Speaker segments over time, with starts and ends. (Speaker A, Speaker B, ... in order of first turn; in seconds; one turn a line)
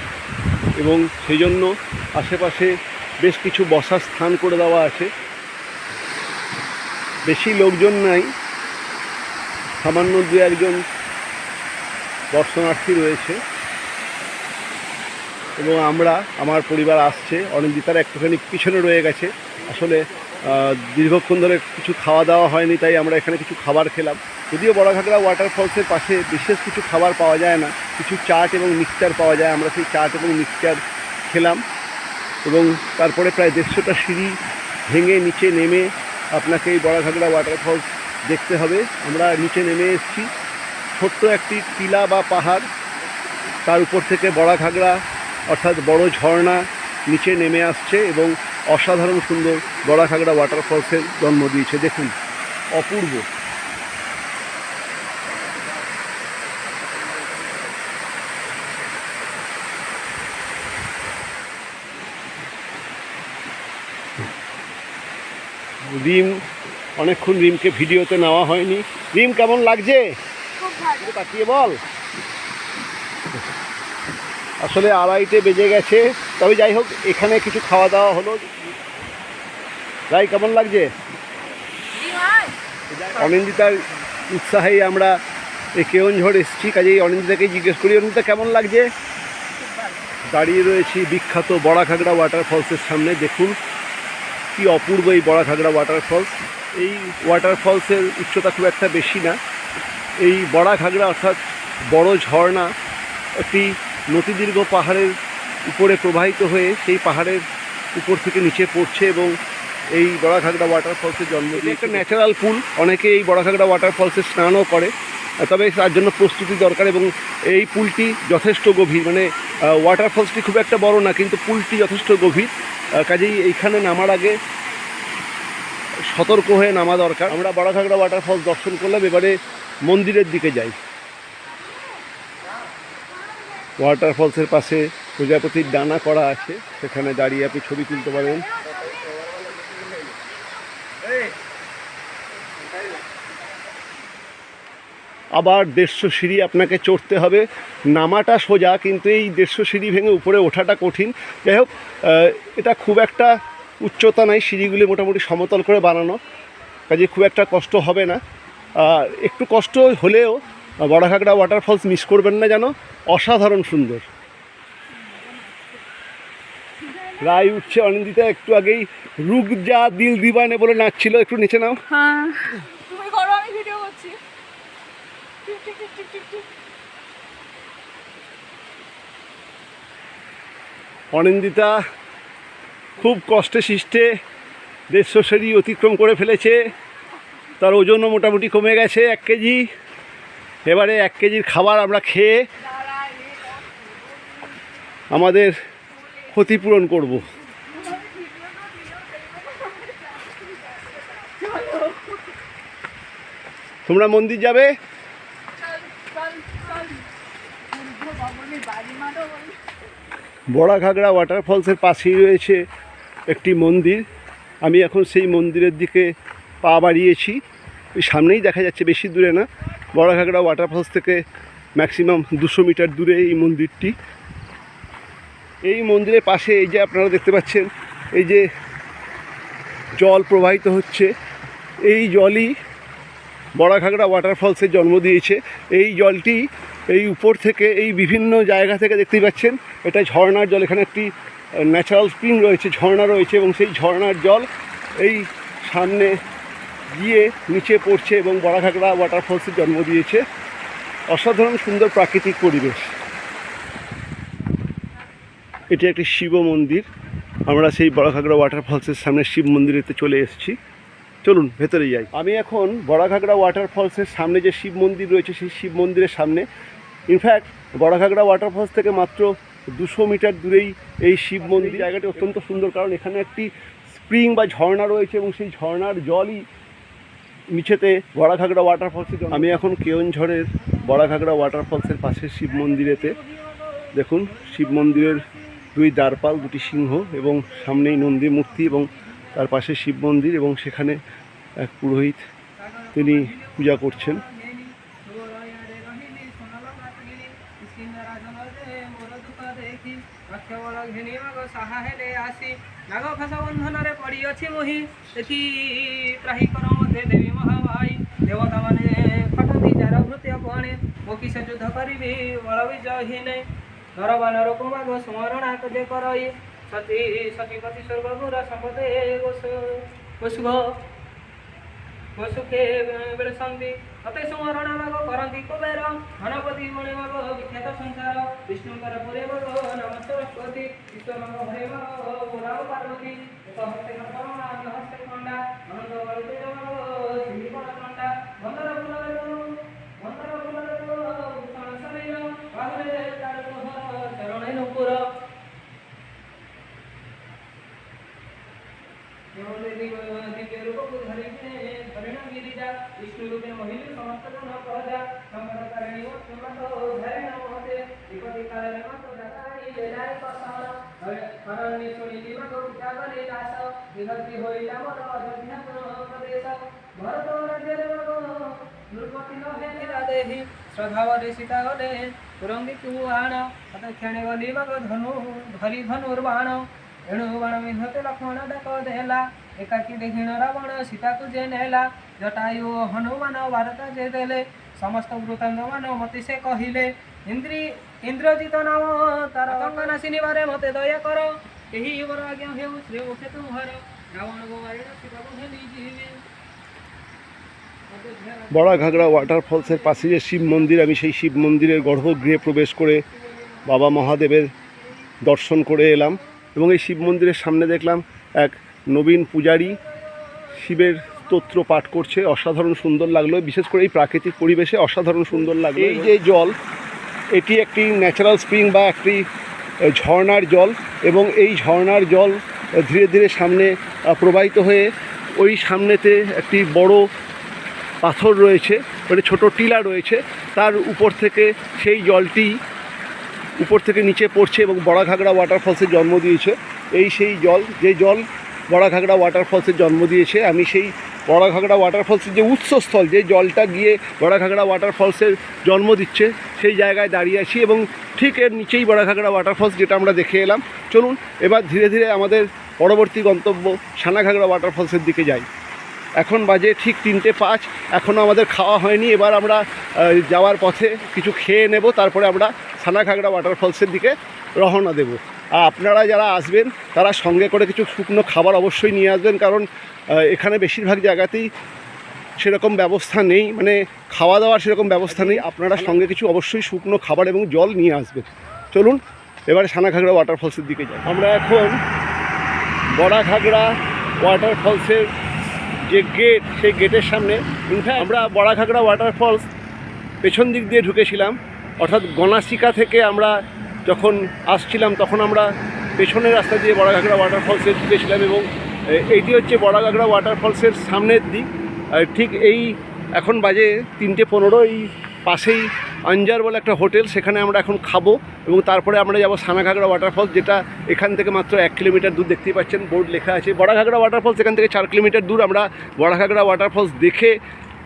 Speaker A: 0.8-5.1
Speaker A: 7.2-8.3
Speaker A: 9.8-10.8
Speaker A: 12.3-13.4
Speaker A: 15.6-31.6
Speaker A: 32.4-34.4
Speaker A: 34.9-40.3
Speaker A: 41.0-42.7
Speaker A: 43.7-52.1
Speaker A: 52.7-53.2
Speaker A: 65.9-66.4
Speaker A: 67.0-70.1
Speaker A: 70.8-71.8
Speaker A: 74.6-78.5
Speaker A: 80.1-80.9
Speaker B: 81.9-82.5
Speaker A: 82.9-85.2
Speaker A: 85.7-88.9
Speaker A: 90.3-93.5
Speaker A: 94.5-99.4
Speaker A: 100.2-102.7
Speaker A: 103.4-105.1
Speaker A: 105.7-109.3
Speaker A: 110.0-124.4
Speaker A: 126.1-130.8
Speaker A: 133.8-138.6
Speaker A: 145.3-156.2
Speaker A: 156.9-158.2
Speaker A: 158.7-164.1
Speaker B: 165.0-165.8
Speaker B: 166.9-167.2
Speaker A: 167.2-171.8
Speaker B: 171.9-174.2
Speaker B: 175.4-176.5
Speaker A: 181.1-181.8
Speaker A: 183.0-184.1
Speaker A: 184.9-186.7
Speaker A: 187.6-189.6
Speaker A: 190.7-192.4
Speaker B: 193.0-193.3
Speaker A: 195.1-195.5
Speaker A: 196.2-197.3
Speaker B: 197.7-202.2
Speaker A: 203.8-204.7
Speaker B: 205.7-207.0
Speaker B: 207.7-209.6
Speaker A: 210.5-212.6
Speaker A: 213.3-214.0
Speaker A: 214.6-216.1
Speaker A: 216.6-217.4
Speaker A: 218.0-221.2
Speaker A: 221.8-223.9
Speaker A: 225.7-228.4
Speaker A: 229.9-231.1
Speaker A: 231.8-232.5
Speaker A: 233.6-244.5
Speaker A: 245.0-246.2
Speaker A: 246.9-250.2
Speaker A: 251.1-252.9
Speaker A: 255.7-256.9
Speaker A: 257.5-260.6
Speaker A: 261.2-266.4
Speaker A: 267.1-276.4
Speaker A: 277.5-283.1
Speaker C: 283.1-283.9
Speaker A: 283.9-291.0
Speaker C: 288.1-289.4
Speaker A: 291.6-292.2
Speaker C: 292.6-320.8
Speaker A: 292.9-294.2
Speaker C: 322.1-345.1
Speaker C: 349.3-396.2
Speaker C: 397.9-400.9
Speaker A: 398.5-403.0
Speaker A: 403.6-404.5
Speaker A: 405.2-409.8
Speaker A: 410.5-416.5
Speaker A: 417.3-419.2
Speaker A: 419.9-427.0
Speaker A: 428.0-432.6
Speaker A: 433.6-455.5
Speaker A: 456.2-471.5
Speaker A: 472.4-481.8
Speaker A: 482.9-485.1
Speaker A: 485.9-489.5
Speaker A: 490.2-517.4